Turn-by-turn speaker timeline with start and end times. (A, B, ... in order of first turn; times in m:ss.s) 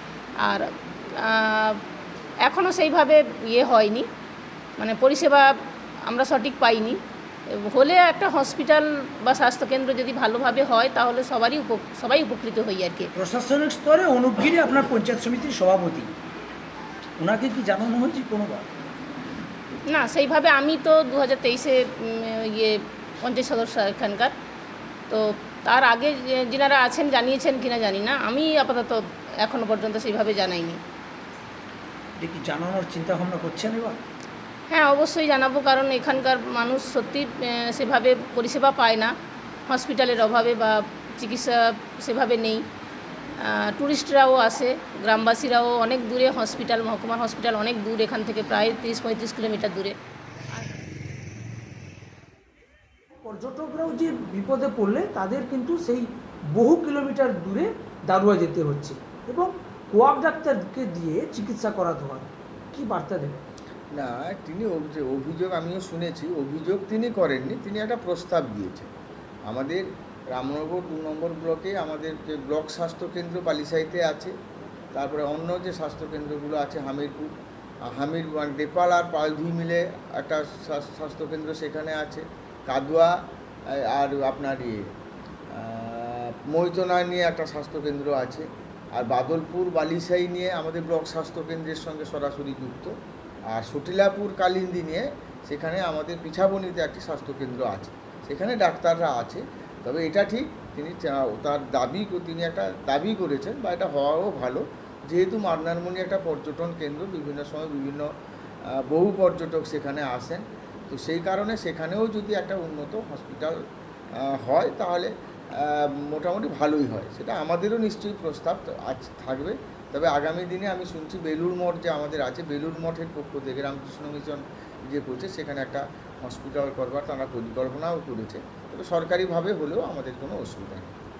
0:00.4-0:01.8 A
0:02.4-0:04.1 A
0:04.8-0:05.5 A
0:06.0-0:07.0 A
0:07.5-0:13.1 A
0:13.1-0:16.1 B
0:17.2-0:18.6 B
0:19.9-0:24.3 A
0:25.1-0:30.8 A
0:32.2-0:34.0 B
0:34.7-0:39.1 A
0:39.7-0:42.6 A
0:43.4-0:50.0 A
0:53.2-1:03.4 B
1:04.0-1:08.9 C
1:09.5-1:14.3 C
1:14.9-1:17.3 C
1:17.9-1:23.2 C
1:23.7-1:24.8 C
1:25.5-1:32.9 C
1:33.5-1:48.0 C
1:48.7-1:53.5 C
1:54.2-2:10.9 C